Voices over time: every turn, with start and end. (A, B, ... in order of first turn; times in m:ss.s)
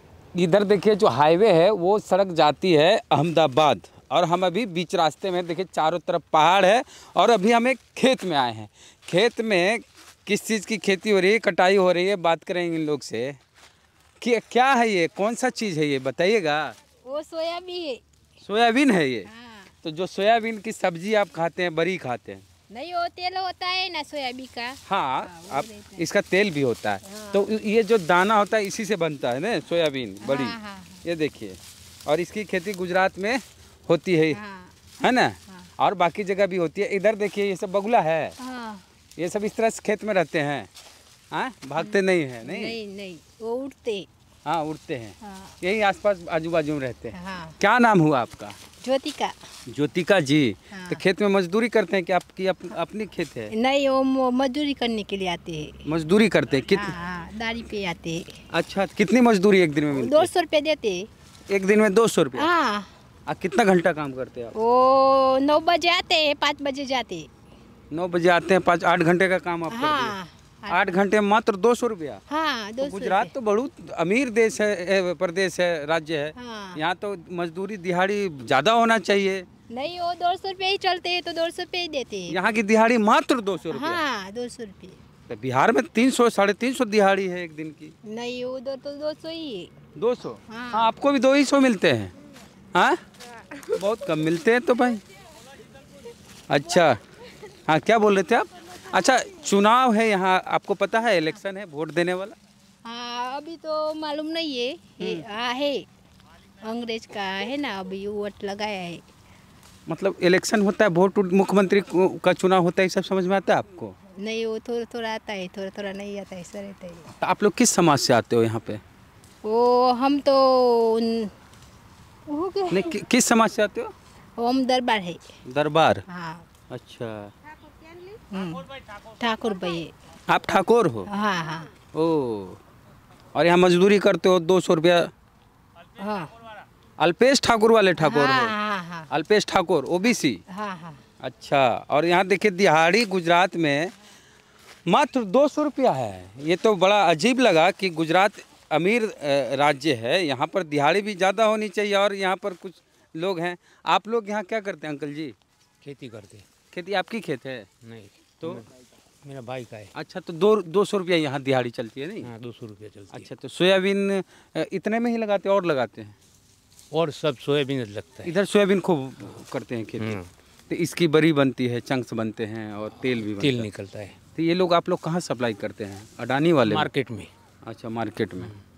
0:00.3-0:13.4 A
0:14.2-0:16.7 A
0:17.0-0:18.0 B
0:18.4-0:19.3 A
0:19.2-0:19.7 B
0:19.8-0:22.4 A
0:22.7-0:26.1 B
0:24.9-0:34.4 A
0:27.0-0:27.5 B
0:30.2-0:31.0 B
0:34.3-0:34.8 B
0:35.0-0:38.4 A
0:38.4-0:38.8 B
0:39.2-0:40.7 A
0:41.3-0:42.8 A
0:41.8-0:44.1 B
0:44.4-0:48.6 A
0:45.2-0:45.5 B
0:47.1-0:47.6 B
0:48.8-0:49.4 B
0:49.7-0:53.5 A
0:50.7-0:51.0 B
0:53.5-0:55.9 B
0:55.8-0:57.0 A
0:56.7-0:58.4 B
0:58.5-1:00.3 A
1:00.0-1:01.1 B
1:01.5-1:02.5 A
1:02.4-1:02.9 B
1:03.3-1:04.5 A
1:04.5-1:07.3 B
1:07.9-1:10.2 A
1:09.7-1:11.0 B
1:10.7-1:12.2 A
1:12.3-1:13.3 B
1:12.8-1:19.4 A
1:16.3-1:16.8 B
1:19.7-1:22.4 B
1:22.3-1:24.0 A
1:23.7-1:25.0 B
1:25.3-1:27.9 A
1:28.0-1:29.7 B
1:30.0-1:32.1 A
1:30.5-1:30.9 B
1:32.7-1:33.0 A
1:33.7-1:35.0 A
1:36.5-1:37.0 A
1:37.7-1:42.4 A
1:42.8-1:45.9 B
1:45.0-1:45.2 A
1:46.6-1:49.0 B
1:49.9-1:53.9 A
1:54.2-1:57.1 B
1:57.2-1:58.8 A
1:59.4-2:01.3 B
2:02.3-2:03.0 B
2:02.7-2:03.9 A
2:04.4-2:05.2 B
2:05.4-2:06.0 A
2:06.1-2:06.4 B
2:06.7-2:07.3 A
2:08.3-2:09.9 B
2:10.3-2:11.1 A
2:11.0-2:11.7 B
2:11.9-2:12.6 A
2:13.3-2:15.1 A
2:16.0-2:16.3 B
2:17.0-2:18.5 A
2:18.0-2:19.1 B
2:19.1-2:20.4 A
2:20.5-2:21.0 B
2:21.2-2:23.9 A
2:24.9-2:35.3 A
2:35.8-2:36.4 C
2:36.7-2:37.7 A
2:37.8-2:38.7 C
2:38.4-2:38.6 A
2:39.2-2:39.9 C
2:39.9-2:42.3 A
2:42.2-2:43.3 C
2:43.1-2:46.1 A
2:46.9-2:48.3 C
2:48.2-2:50.2 A
2:50.0-2:50.3 C
2:50.7-2:53.7 A
2:53.0-2:54.2 C
2:54.3-2:56.9 A
2:56.6-2:57.3 C
2:57.6-2:58.5 A